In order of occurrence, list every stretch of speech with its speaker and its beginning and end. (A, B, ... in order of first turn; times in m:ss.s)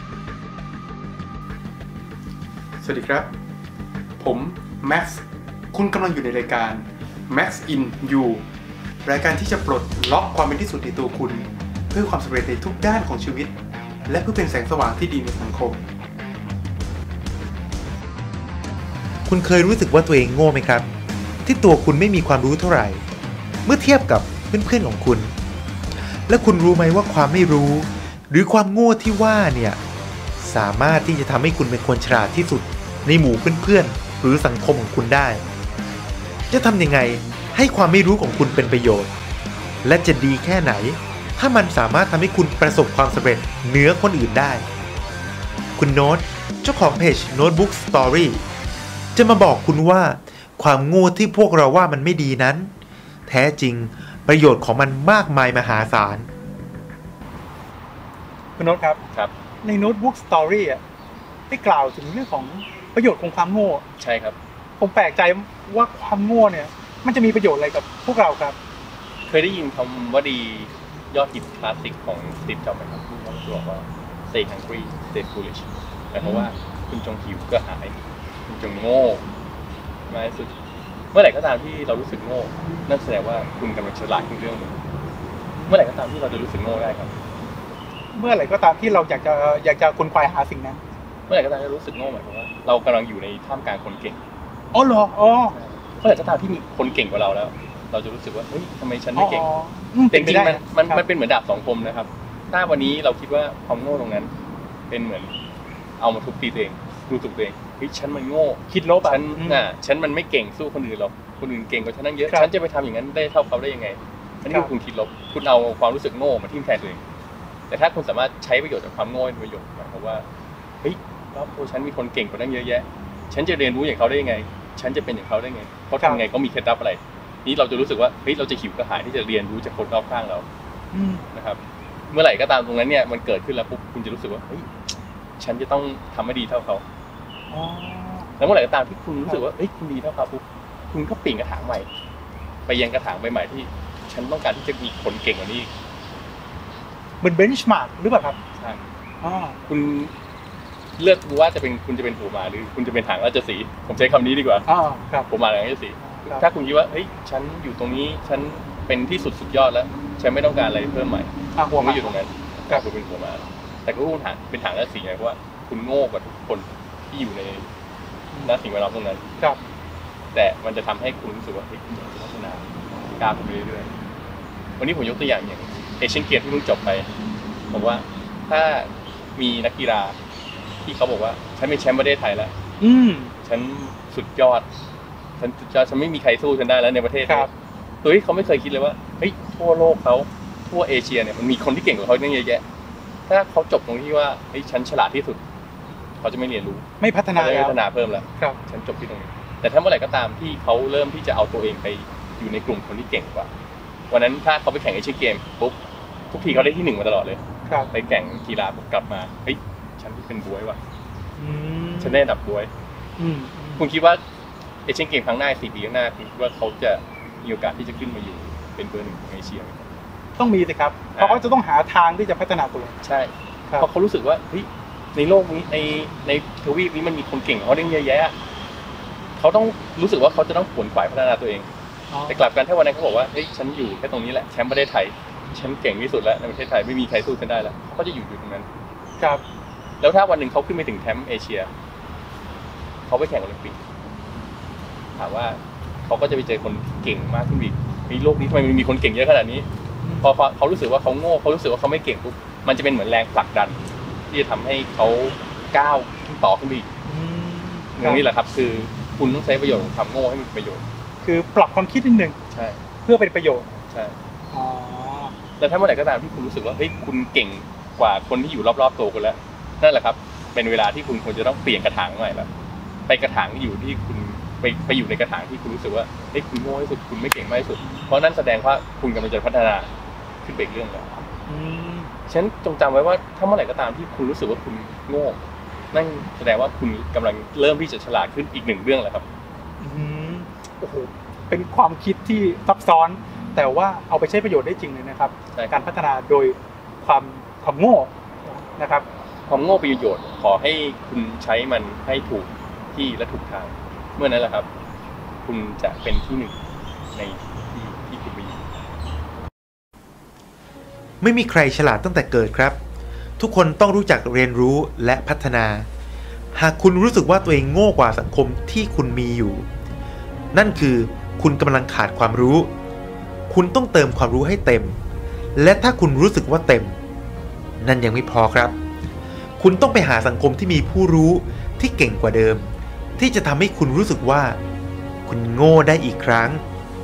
0:02.8-0:03.3 A
0:04.2-0:08.4 A
0:09.0-0:13.5 A
0:14.0-0:15.8 A
0:19.3-0:20.9 B
0:21.4-0:23.0 B
0:23.6-0:25.3 B
0:26.3-0:29.8 B
0:30.4-0:35.4 B
0:36.5-0:39.1 B
0:39.8-0:44.6 B
0:45.8-0:48.4 B
0:49.1-0:52.7 B
0:53.3-0:56.3 B
0:58.6-0:59.0 C
0:59.6-1:00.8 C
1:01.5-1:03.8 C
1:04.0-1:04.4 D
1:04.8-1:08.6 C
1:09.3-1:17.9 D
1:16.2-1:16.5 C
1:18.5-1:19.2 D
1:20.1-1:20.5 D
1:21.1-1:24.8 D
1:25.7-1:27.1 D
1:28.1-1:30.8 C
1:31.3-1:34.2 D
1:34.7-1:35.5 C
1:35.5-1:39.5 D
1:39.2-1:41.0 C
1:40.1-1:44.3 D
1:44.9-1:45.3 D
1:46.0-1:57.0 D
1:48.7-1:49.6 C
1:57.7-2:00.2 D
2:00.8-2:10.4 D
2:10.9-2:11.2 C
2:11.3-2:14.7 D
2:15.4-2:16.8 D
2:17.5-2:18.3 C
2:18.4-2:21.9 D
2:22.7-2:25.7 D
2:27.2-2:28.4 C
2:28.6-2:28.8 D
2:29.2-2:29.6 C
2:29.6-2:30.1 D
2:31.0-2:34.6 D
2:34.7-2:35.3 C
2:35.3-2:47.7 D
2:36.0-2:36.4 C
2:41.5-2:42.1 C
2:48.4-2:49.2 D
2:50.3-2:52.6 D
2:53.2-2:53.9 D
2:54.8-2:57.1 D
2:57.7-3:00.2 D
3:00.8-3:02.5 D
3:02.8-3:03.3 C
3:03.4-3:04.6 D
3:05.4-3:07.5 D
3:07.2-3:07.5 C
3:08.0-3:12.6 D
3:13.3-3:15.4 D
3:16.2-3:16.8 D
3:17.0-3:17.8 C
3:17.3-3:23.5 D
3:24.1-3:25.8 D
3:26.3-3:27.4 D
3:27.9-3:30.8 D
3:31.4-3:32.2 C
3:32.0-3:32.7 D
3:33.2-3:33.9 C
3:33.8-3:34.2 D
3:34.8-3:39.9 D
3:40.4-3:43.0 C
3:41.1-3:41.4 D
3:43.0-3:48.3 D
3:49.4-3:51.7 D
3:52.1-3:52.4 C
3:52.3-3:58.7 D
4:00.0-4:01.7 D
4:03.1-4:03.8 D
4:05.2-4:09.6 D
4:10.2-4:16.9 D
4:17.0-4:18.2 C
4:18.0-4:20.8 D
4:21.2-4:22.4 C
4:22.5-4:22.8 D
4:23.0-4:23.7 C
4:24.5-4:25.4 C
4:25.6-4:32.5 D
4:33.1-4:39.9 D
4:37.8-4:38.1 C
4:40.4-4:41.2 D
4:41.5-4:42.1 C
4:42.3-4:45.4 D
4:45.9-4:49.2 D
4:49.8-4:59.0 C
4:59.5-5:04.7 D
5:05.4-5:06.6 D
5:07.1-5:08.6 D
5:11.2-5:12.8 B
5:13.4-5:15.9 B
5:16.5-5:19.6 B
5:20.5-5:22.7 B
5:23.5-5:25.0 B
5:25.6-5:27.0 B
5:27.8-5:28.8 B
5:29.6-5:34.6 B
5:35.3-5:36.6 B